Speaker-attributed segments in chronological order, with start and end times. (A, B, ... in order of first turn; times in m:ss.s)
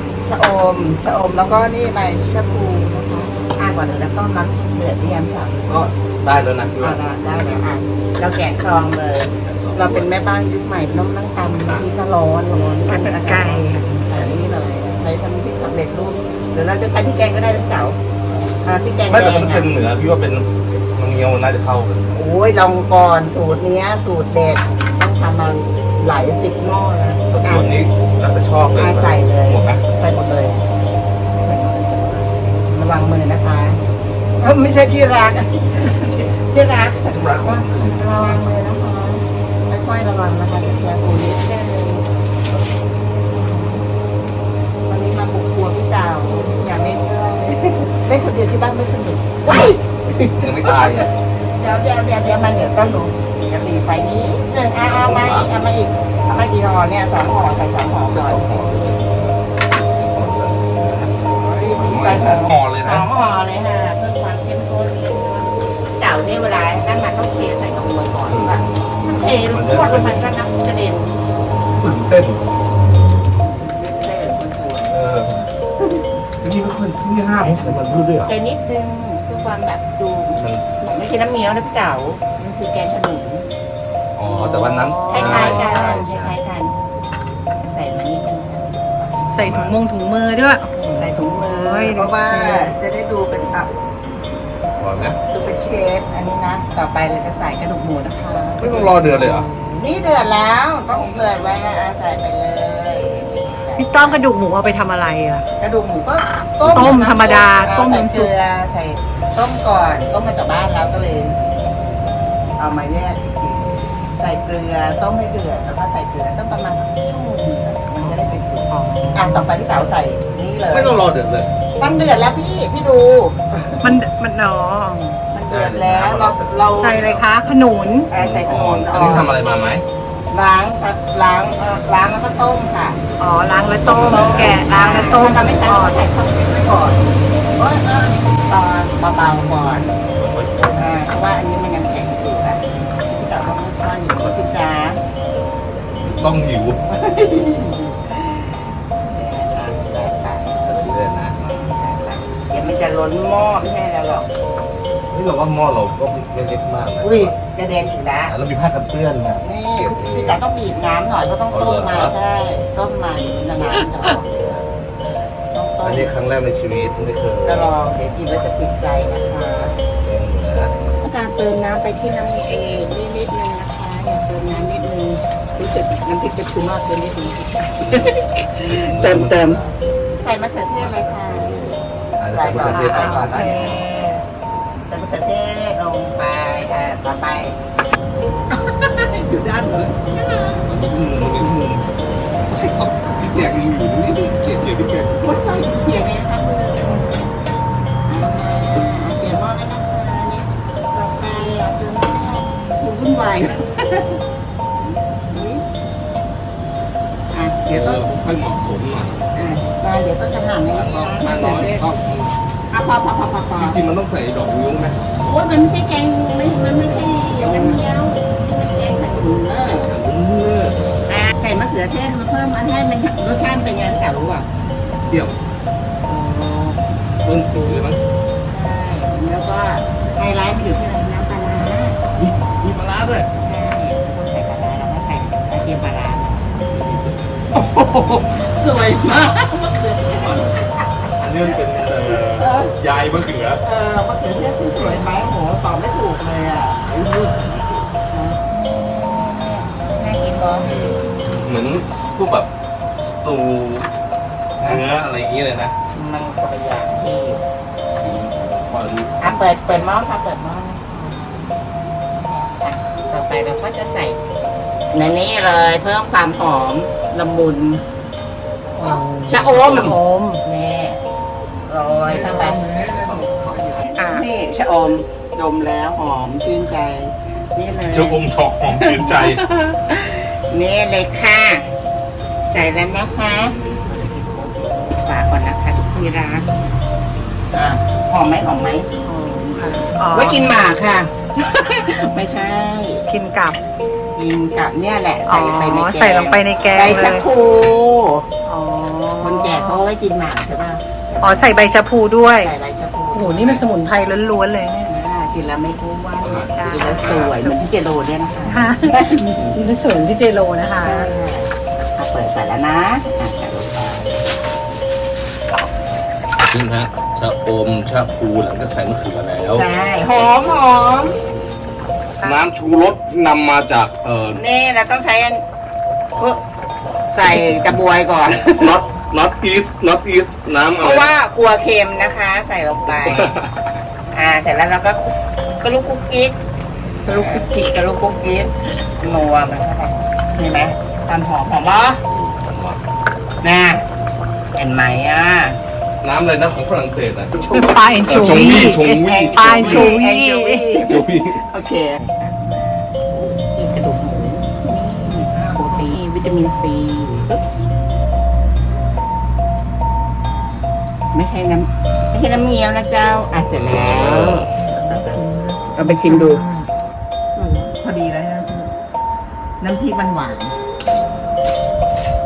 0:00.2-0:05.9 A
0:06.2-0:07.0 B
0:06.8-0:18.0 A
0:09.4-0:10.1 B
0:12.7-0:14.1 C
0:18.6-0:19.7 A
0:19.1-0:22.1 B
0:22.1-0:27.8 A
0:27.3-0:29.8 B
0:28.8-0:30.6 A
0:31.4-0:33.8 A
0:34.4-0:42.1 A
0:37.0-0:38.4 B
0:43.3-0:43.8 A
0:44.9-0:58.6 A
0:49.5-0:51.1 B
0:54.9-0:55.5 B
0:58.1-1:03.1 B
1:01.4-1:11.2 A
1:08.3-1:08.6 B
1:09.5-1:10.3 B
1:11.8-1:12.4 B
1:13.4-1:15.0 A
1:14.9-1:15.5 B
1:15.8-1:16.1 A
1:16.4-1:18.3 B
1:17.4-1:17.7 A
1:18.2-1:23.5 A
1:20.4-1:20.6 B
1:24.2-1:26.4 B
1:24.3-1:25.9 C
1:25.1-1:26.8 A
1:27.6-1:29.3 A
1:29.3-1:32.8 C
1:29.4-1:29.8 B
1:31.0-1:33.7 A
1:34.8-1:35.2 B
1:35.3-1:39.2 A
1:38.6-1:39.5 B
1:39.0-1:39.8 C
1:39.7-1:44.2 A
1:43.8-1:45.4 C
1:45.6-1:51.4 A
1:46.6-1:46.9 B
1:46.7-1:48.3 C
1:52.6-2:01.1 A
1:58.0-1:59.5 C
2:00.7-2:01.5 B
2:01.8-2:04.0 A
2:03.8-2:05.2 C
2:05.3-2:07.2 A
2:05.5-2:07.2 B
2:06.8-2:08.1 C
2:08.1-2:09.3 A
2:08.1-2:09.8 B
2:10.3-2:13.0 A
2:13.2-2:16.0 C
2:13.8-2:14.6 B
2:13.9-2:20.0 A
2:20.2-2:20.9 B
2:20.8-2:25.0 A
2:26.1-2:26.8 B
2:26.8-2:34.3 A
2:30.6-2:31.4 B
2:35.1-2:37.4 B
2:37.0-2:38.3 A
2:38.3-2:40.4 B
2:39.4-2:44.6 A
2:41.5-2:42.1 B
2:45.5-2:46.1 A
2:45.8-2:47.7 B
2:47.4-2:49.8 A
2:50.0-2:50.7 B
2:51.0-2:59.6 A
2:57.8-2:58.2 B
2:58.7-2:59.8 B
3:00.2-3:01.5 A
3:00.8-3:03.8 B
3:02.3-3:03.9 A
3:02.6-3:04.3 C
3:04.9-3:07.6 A
3:08.5-3:10.7 A
3:10.7-3:11.9 B
3:12.5-3:15.1 B
3:15.1-3:17.3 A
3:18.1-3:24.2 A
3:24.8-3:25.6 A
3:27.3-3:28.1 A
3:27.7-3:29.2 B
3:29.3-3:31.9 A
3:30.7-3:32.3 B
3:32.7-3:33.8 A
3:33.6-3:35.0 B
3:35.2-3:39.9 A
3:37.0-3:37.8 B
3:39.6-3:40.9 B
3:41.1-3:44.5 A
3:45.1-3:45.3 B
3:46.1-3:46.8 A
3:47.2-3:48.0 B
3:47.5-3:47.8 A
3:48.5-3:52.0 A
3:52.2-3:53.3 B
3:53.3-3:56.6 A
3:56.7-3:57.4 B
3:57.5-4:02.7 A
4:00.2-4:00.5 B
4:01.2-4:03.6 B
4:03.6-4:07.0 A
4:04.8-4:05.2 B
4:06.9-4:08.0 B
4:08.1-4:10.7 A
4:10.6-4:13.9 B
4:14.6-4:15.8 B
4:15.9-4:17.4 A
4:18.0-4:19.9 B
4:19.2-4:24.2 A
4:24.9-4:27.8 A
4:28.8-4:31.0 A
4:28.8-4:30.4 C
4:29.5-4:30.0 B
4:31.7-4:32.8 A
4:32.1-4:33.9 B
4:33.8-4:41.7 A
4:34.0-4:34.2 C
4:37.9-4:39.4 B
4:42.4-4:46.5 A
4:47.5-4:48.9 A
4:49.0-4:50.5 C
4:50.1-4:53.1 A
4:53.1-4:53.6 C
4:54.2-4:58.3 A
4:55.3-4:57.2 C
4:58.4-4:59.8 C
4:59.2-5:01.7 A
5:01.2-5:02.5 C
5:02.3-5:03.6 A
5:03.1-5:04.9 C
5:04.9-5:09.6 A
5:06.2-5:07.4 B
5:06.5-5:07.7 C
5:08.4-5:11.1 C
5:10.8-5:14.2 A
5:16.4-5:20.4 B
5:19.4-5:21.2 A
5:22.2-5:24.4 B
5:24.3-5:25.4 A
5:27.1-5:28.8 A
5:28.3-5:31.1 B
5:30.8-5:33.3 A
5:32.9-5:33.7 B
5:34.1-5:36.4 A
5:37.0-5:42.0 A
5:37.1-5:37.5 C
5:42.1-5:42.8 B
5:43.4-5:43.8 A
5:44.6-5:45.6 A
5:46.0-5:49.9 B
5:47.5-5:50.6 C
5:47.5-5:57.6 A
5:50.8-5:51.4 B
6:01.1-6:05.2 A
6:01.8-6:02.1 B
6:03.6-6:04.5 B
6:04.6-6:06.7 C
6:05.7-6:06.4 A
6:07.5-6:08.7 A
6:09.6-6:10.6 A